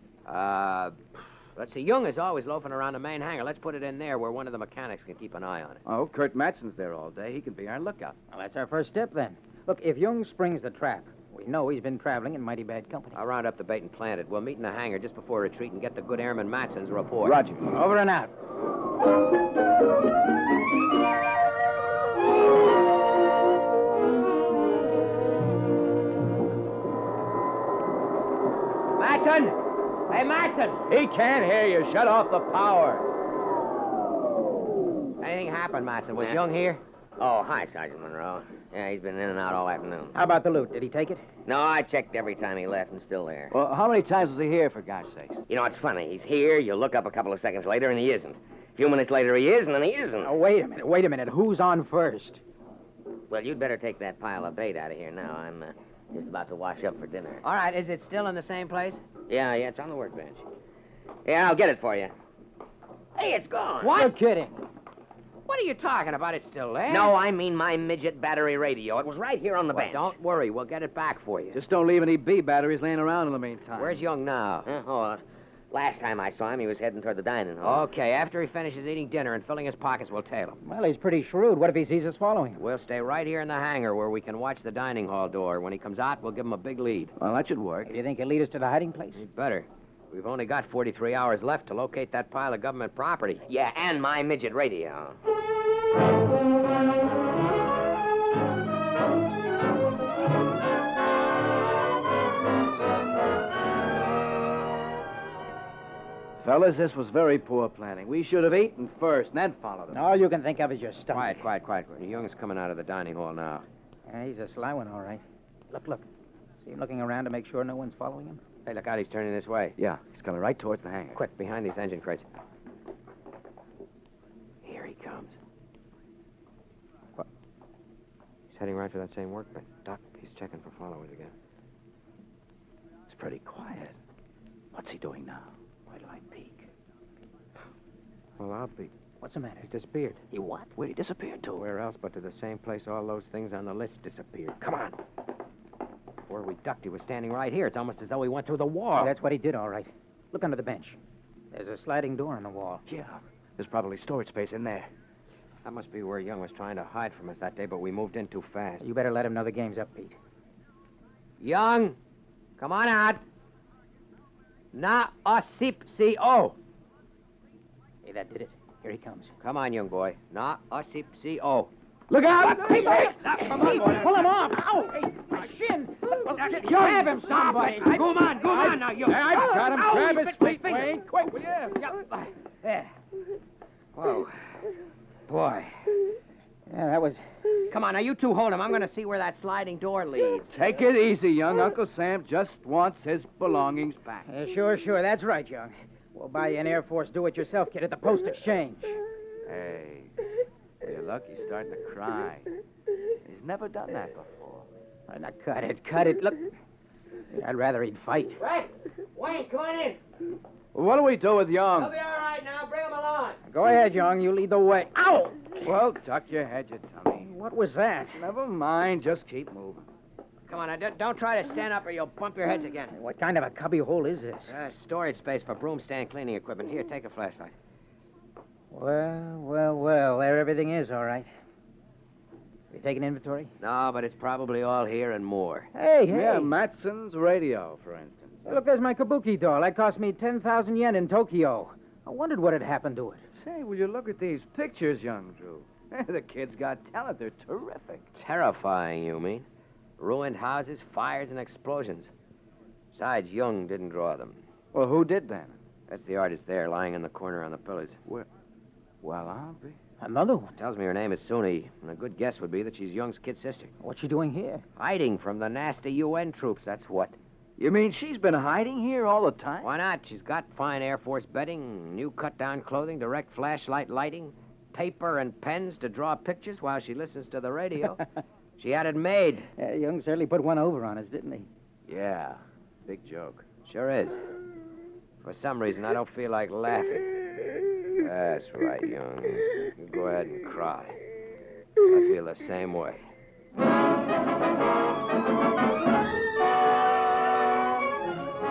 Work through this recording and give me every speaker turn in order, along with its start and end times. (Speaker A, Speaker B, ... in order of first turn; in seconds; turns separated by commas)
Speaker A: 0.2-5.8, Speaker B: 5.8-8.2, Speaker C: 8.3-13.2, Speaker A: 13.1-17.4, Speaker B: 17.2-17.7, Speaker C: 17.7-18.3, Speaker A: 28.9-30.8, Speaker B: 30.9-33.0, Speaker A: 35.2-36.8, Speaker D: 37.2-40.1, Speaker C: 40.1-41.2, Speaker D: 41.5-43.5, Speaker B: 43.5-45.4, Speaker D: 45.5-50.3, Speaker C: 50.2-52.4, Speaker D: 53.3-57.4, Speaker A: 57.4-59.0, Speaker D: 59.3-60.4, Speaker D: 61.2-62.1, Speaker D: 63.1-64.0, Speaker A: 63.8-64.1, Speaker C: 63.9-64.5, Speaker A: 65.5-67.1, Speaker D: 66.9-70.1, Speaker A: 69.7-71.6, Speaker B: 71.5-74.0, Speaker A: 73.8-74.7, Speaker D: 74.7-77.9, Speaker A: 77.6-80.6, Speaker C: 80.6-82.6, Speaker A: 82.6-87.1, Speaker B: 87.2-87.9, Speaker C: 87.8-89.2, Speaker A: 89.1-93.4, Speaker D: 93.5-95.2, Speaker B: 106.4-110.0, Speaker C: 109.9-111.4, Speaker A: 111.1-113.6, Speaker C: 114.1-116.0, Speaker C: 116.6-118.4, Speaker A: 118.7-119.8, Speaker B: 119.8-121.2, Speaker A: 121.1-122.3, Speaker A: 124.6-125.3, Speaker A: 128.5-131.3, Speaker B: 133.1-133.9, Speaker B: 134.7-136.7, Speaker B: 138.4-138.8, Speaker A: 138.4-138.9, Speaker C: 139.2-139.7, Speaker A: 139.7-140.7, Speaker B: 140.8-141.6, Speaker A: 141.6-145.0, Speaker A: 146.3-149.1, Speaker C: 149.0-151.0, Speaker C: 151.5-152.8, Speaker B: 152.9-154.9, Speaker A: 155.6-158.8, Speaker C: 158.8-160.2, Speaker A: 161.4-162.0, Speaker A: 162.6-163.2, Speaker A: 164.7-166.6, Speaker C: 168.0-169.3, Speaker A: 169.4-171.7, Speaker B: 172.1-173.6, Speaker C: 172.5-181.0, Speaker A: 173.2-174.2, Speaker A: 176.7-181.1, Speaker B: 179.1-182.0, Speaker A: 181.7-182.9, Speaker C: 184.0-184.2, Speaker C: 185.3-185.7, Speaker C: 186.7-187.2, Speaker A: 187.7-190.5, Speaker B: 190.5-194.3, Speaker C: 194.3-199.0, Speaker B: 199.4-200.1, Speaker B: 200.8-202.5, Speaker B: 203.2-204.7, Speaker C: 205.1-206.5, Speaker C: 207.3-208.4, Speaker A: 208.4-210.0, Speaker B: 210.7-211.9, Speaker A: 211.8-213.4, Speaker C: 213.5-215.6, Speaker B: 215.6-217.3, Speaker C: 217.2-218.2, Speaker B: 218.1-219.8, Speaker A: 220.5-222.9, Speaker C: 222.9-224.5, Speaker A: 224.5-227.5, Speaker C: 228.7-231.3, Speaker C: 232.7-233.5, Speaker A: 233.6-235.7, Speaker C: 235.7-236.5, Speaker B: 236.1-238.6, Speaker C: 238.4-243.2, Speaker B: 243.3-248.1, Speaker A: 248.1-249.4, Speaker A: 250.0-252.1, Speaker A: 252.9-254.4, Speaker B: 254.7-255.6, Speaker A: 255.9-258.0, Speaker B: 259.0-259.8, Speaker C: 260.0-260.5, Speaker A: 260.6-263.7, Speaker C: 263.8-264.6, Speaker A: 264.8-267.1, Speaker B: 267.6-269.7, Speaker A: 269.6-278.0, Speaker A: 278.6-279.5, Speaker C: 279.6-281.5, Speaker B: 281.9-283.4, Speaker A: 283.6-284.2, Speaker A: 285.2-287.1, Speaker A: 288.0-291.0, Speaker A: 291.8-293.0